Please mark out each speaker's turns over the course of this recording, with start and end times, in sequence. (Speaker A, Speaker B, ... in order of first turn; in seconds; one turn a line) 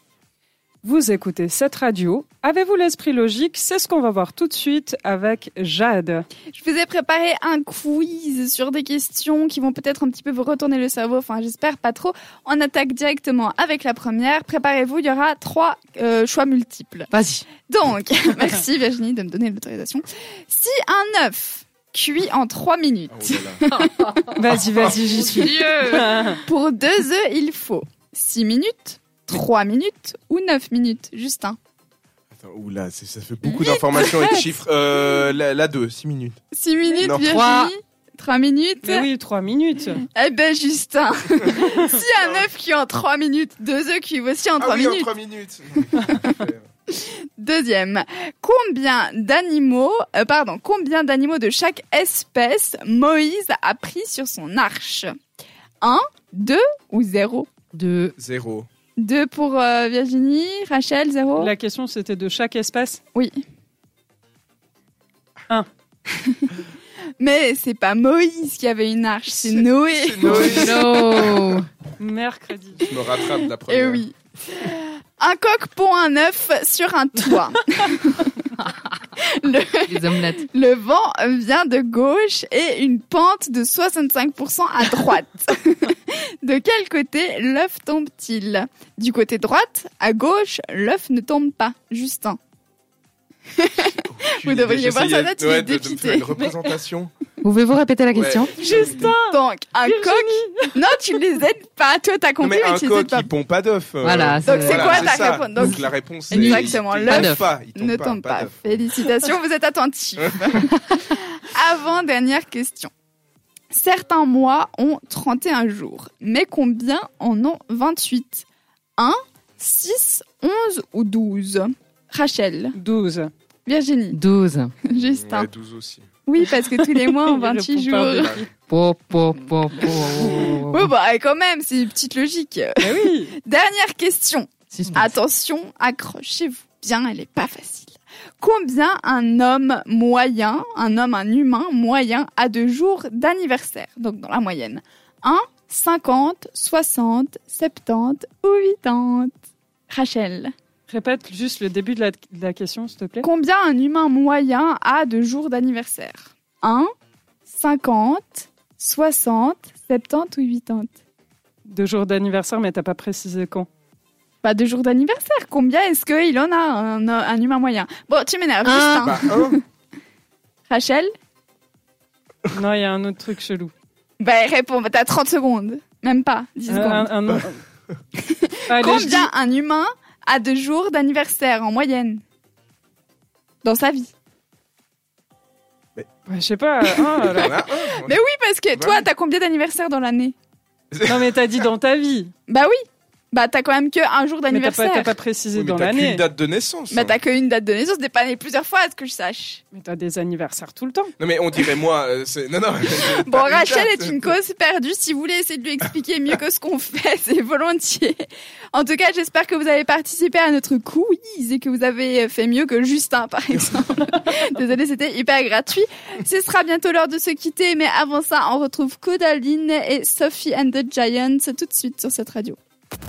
Speaker A: 0.8-6.3
Speaker B: 6.5-24.1
Speaker C: 17.1-17.5
Speaker D: 23.1-23.6
Speaker C: 23.9-24.3
Speaker A: 24.3-26.4
Speaker C: 25.2-26.1
Speaker B: 26.4-31.6
Speaker D: 32.3-36.4
Speaker B: 33.4-34.5
Speaker B: 36.5-39.1
Speaker D: 37.0-37.4
Speaker C: 37.2-37.7
Speaker A: 38.8-40.0
Speaker B: 40.1-45.1
Speaker D: 44.6-46.6
Speaker B: 46.0-46.3
Speaker B: 46.9-55.1
Speaker B: 55.8-57.5
Speaker C: 57.7-58.1
Speaker D: 58.2-58.7
Speaker B: 59.0-61.5
Speaker A: 61.4-63.0
Speaker B: 63.1-63.4
Speaker B: 66.1-66.5
Speaker B: 67.2-71.0
Speaker D: 69.9-71.4
Speaker C: 70.2-71.7
Speaker A: 72.0-72.8
Speaker D: 72.8-74.1
Speaker B: 73.3-78.5
Speaker B: 79.0-92.4
Speaker C: 79.9-80.4
Speaker B: 93.5-96.3
Speaker D: 94.1-97.1
Speaker C: 97.4-98.5
Speaker D: 98.2-98.5
Speaker A: 98.5-100.8
Speaker B: 98.6-103.3
Speaker D: 102.4-108.9
Speaker C: 104.0-105.8
Speaker B: 104.4-112.9
Speaker C: 106.3-107.4
Speaker D: 110.2-110.6
Speaker B: 113.7-118.5
Speaker B: 119.0-122.8
Speaker A: 122.7-123.3
Speaker B: 123.7-124.2
Speaker C: 124.1-124.7
Speaker B: 124.8-125.5
Speaker D: 124.9-126.1
Speaker B: 126.3-128.4
Speaker A: 126.9-128.5
Speaker C: 128.7-130.9
Speaker B: 129.9-149.3
Speaker A: 132.8-133.3
Speaker C: 134.7-135.1
Speaker B: 149.9-150.5
Speaker A: 150.9-153.3
Speaker B: 153.2-156.9
Speaker B: 157.5-160.9
Speaker A: 161.7-163.7
Speaker B: 164.4-169.6
Speaker A: 168.7-169.0
Speaker D: 169.0-169.6
Speaker B: 170.7-171.1
Speaker A: 172.5-173.7
Speaker B: 174.2-177.1
Speaker A: 176.7-177.6
Speaker B: 178.2-182.2
Speaker A: 178.7-179.3
Speaker B: 183.6-184.1
Speaker A: 186.3-187.6
Speaker D: 187.2-188.2
Speaker B: 187.4-190.3
Speaker D: 188.7-189.1
Speaker D: 190.9-191.3
Speaker A: 191.1-192.3
Speaker B: 192.5-192.8
Speaker B: 193.3-195.1
Speaker A: 194.5-196.2
Speaker D: 195.5-197.2
Speaker B: 196.9-199.6
Speaker A: 199.7-201.1
Speaker D: 201.2-204.4
Speaker B: 203.0-222.6